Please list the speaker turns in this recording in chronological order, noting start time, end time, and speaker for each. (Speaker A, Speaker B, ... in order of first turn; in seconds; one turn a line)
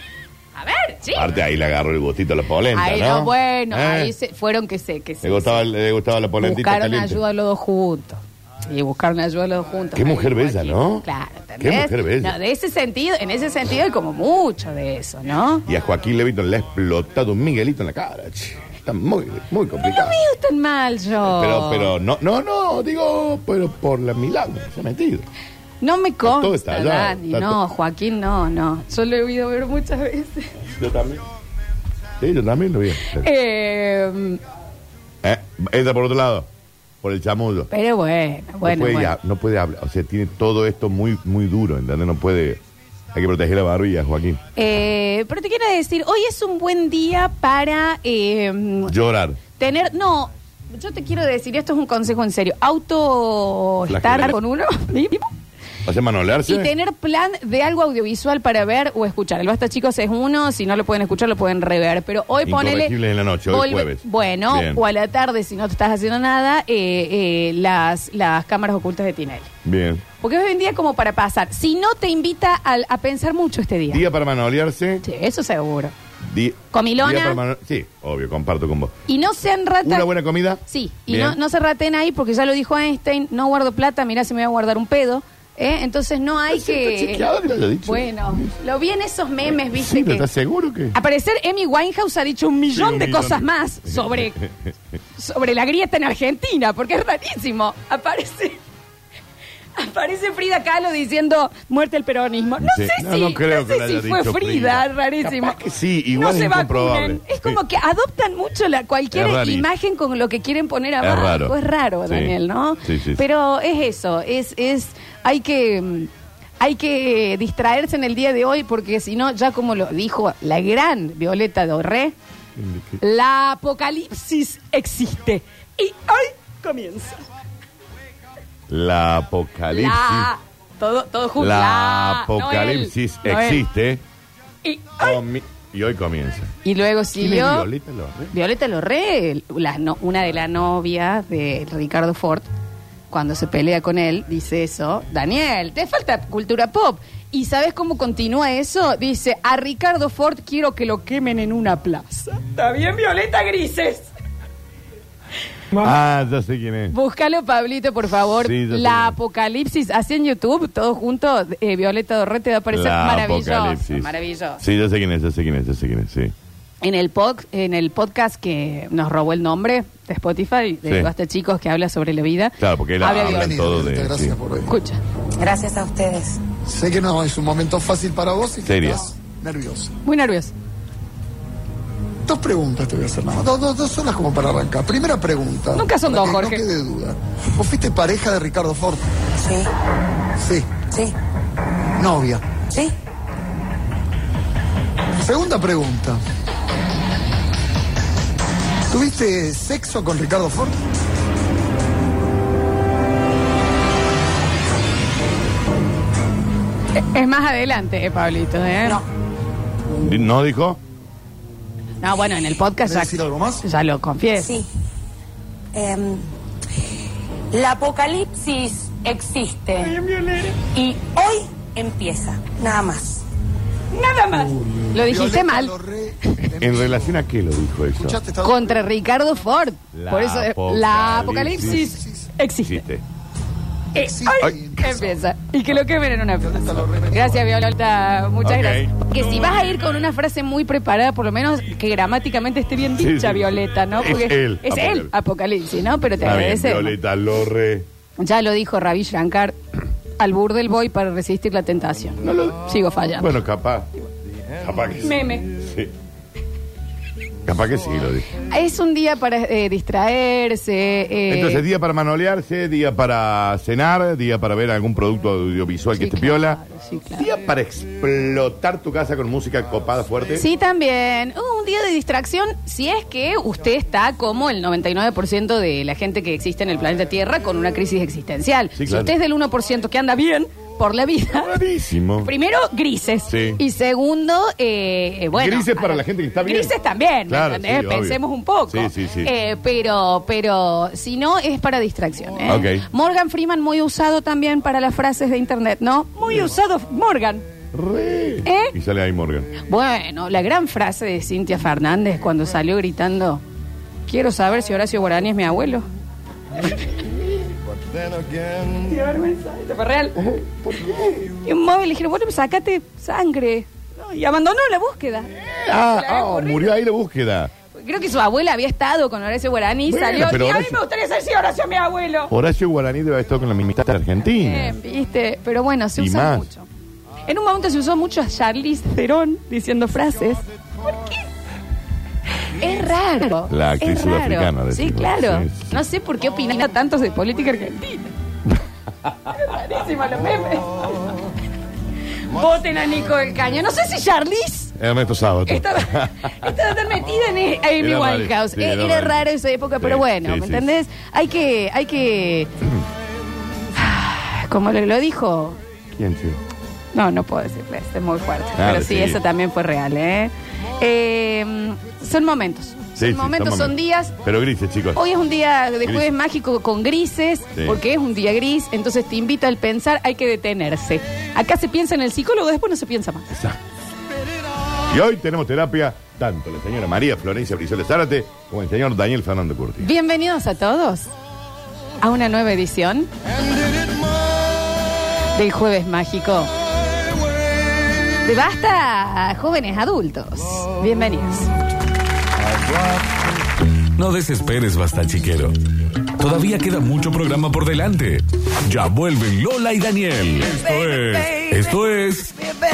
Speaker A: 0.6-1.3
Speaker B: 1.1-4.1
Speaker A: 2.7-5.6
Speaker B: 5.2-7.2
Speaker A: 6.4-15.6
Speaker B: 9.9-11.1
Speaker B: 11.6-12.3
Speaker B: 15.7-20.2
Speaker A: 19.8-21.9
Speaker B: 21.2-25.3
Speaker A: 25.8-30.5
Speaker B: 26.2-27.6
Speaker B: 30.7-31.2
Speaker B: 32.2-33.3
Speaker A: 33.0-34.4
Speaker B: 35.2-36.5
Speaker B: 37.0-37.7
Speaker A: 37.7-39.1
Speaker B: 38.6-42.6
Speaker B: 43.1-44.4
Speaker A: 44.5-48.9
Speaker B: 48.9-49.4
Speaker A: 49.5-55.3
Speaker B: 53.9-54.4
Speaker B: 55.8-56.7
Speaker A: 56.5-62.9
Speaker B: 62.4-64.8
Speaker A: 63.5-69.5
Speaker B: 69.6-70.0
Speaker A: 70.2-74.0
Speaker B: 73.9-75.0
Speaker A: 75.0-75.9
Speaker B: 76.2-78.9
Speaker A: 76.7-77.4
Speaker A: 79.1-80.1
Speaker B: 79.8-81.4
Speaker A: 80.6-87.3
Speaker B: 86.5-88.5
Speaker A: 87.8-90.3
Speaker B: 89.4-91.0
Speaker A: 90.9-94.4
Speaker B: 92.7-94.5
Speaker A: 95.1-98.6
Speaker A: 99.8-105.6
Speaker B: 102.6-107.6
Speaker A: 106.1-122.1
Speaker B: 109.1-109.7
Speaker B: 111.0-113.2
Speaker B: 122.6-123.0
Speaker A: 123.0-127.2
Speaker B: 128.7-130.3
Speaker A: 129.7-133.6
Speaker B: 131.4-134.0
Speaker A: 134.6-135.2
Speaker B: 135.0-136.5
Speaker A: 136.6-137.7
Speaker B: 137.2-138.3
Speaker A: 138.3-142.5
Speaker A: 143.1-154.1
Speaker B: 155.7-156.9
Speaker A: 156.9-164.6
Speaker B: 158.2-159.2
Speaker B: 162.7-166.3
Speaker A: 166.8-173.8
Speaker B: 170.8-171.1
Speaker B: 172.6-174.4
Speaker C: 173.0-174.7
Speaker A: 174.7-175.0
Speaker D: 175.4-176.4
Speaker C: 176.6-179.9
Speaker B: 178.6-179.1
Speaker A: 180.0-180.5
Speaker C: 182.2-189.0
Speaker A: 185.7-186.6
Speaker D: 189.4-189.7
Speaker C: 190.4-190.9
Speaker D: 190.9-191.2
Speaker C: 192.0-192.8
Speaker C: 195.2-196.2
Speaker C: 198.9-200.8
Speaker A: 206.9-209.0
Speaker B: 209.9-210.8
Speaker A: 212.0-214.6
Speaker C: 212.9-213.6
Speaker D: 214.4-214.7
Speaker D: 215.7-216.2
Speaker D: 217.5-219.9
Speaker A: 219.8-220.6
Speaker D: 220.7-223.2
Speaker A: 223.9-226.4
Speaker C: 224.9-227.2
Speaker B: 226.6-228.2
Speaker C: 227.9-228.8
Speaker A: 228.4-232.8
Speaker B: 229.9-231.9
Speaker C: 231.6-232.3
Speaker B: 232.6-233.0
Speaker A: 233.9-246.9
Speaker C: 234.0-235.2
Speaker C: 236.6-237.3
Speaker B: 238.4-239.0
Speaker B: 242.9-245.1
Speaker B: 246.2-247.8
Speaker A: 248.2-249.6
Speaker A: 250.2-253.4
Speaker B: 252.2-253.9
Speaker B: 254.6-255.9
Speaker A: 255.0-255.5
Speaker B: 257.4-258.3
Speaker A: 258.4-261.6
Speaker B: 261.3-266.6
Speaker A: 265.9-267.3
Speaker B: 267.1-270.4
Speaker A: 270.4-281.6
Speaker B: 278.8-279.1
Speaker B: 281.3-282.3
Speaker A: 282.2-297.4
Speaker B: 283.3-283.6
Speaker B: 285.3-289.3
Speaker B: 292.5-292.9
Speaker B: 297.7-299.5
Speaker A: 298.4-298.7
Speaker A: 299.6-303.4
Speaker A: 304.1-305.8
Speaker A: 308.7-310.2
Speaker B: 310.2-311.3
Speaker A: 311.4-316.8
Speaker B: 315.4-317.5
Speaker A: 317.7-322.3
Speaker B: 319.9-320.8
Speaker B: 322.3-324.8
Speaker A: 324.3-326.7
Speaker B: 325.9-326.5
Speaker A: 327.2-331.2
Speaker A: 332.4-338.1
Speaker B: 333.5-335.8
Speaker A: 339.3-341.1
Speaker A: 342.2-344.7
Speaker B: 344.8-346.6
Speaker A: 345.5-352.5
Speaker B: 347.8-349.2
Speaker B: 349.8-350.7
Speaker A: 353.7-355.6
Speaker B: 355.9-356.4
Speaker A: 356.9-364.1
Speaker B: 358.6-359.2
Speaker B: 363.0-365.0
Speaker A: 364.9-373.3
Speaker B: 365.8-366.1
Speaker B: 367.5-367.8
Speaker B: 373.3-373.6
Speaker B: 374.9-379.9
Speaker A: 379.8-381.1
Speaker A: 382.0-383.1
Speaker A: 385.3-386.5
Speaker A: 388.2-391.5
Speaker E: 393.9-395.6
Speaker E: 396.2-402.3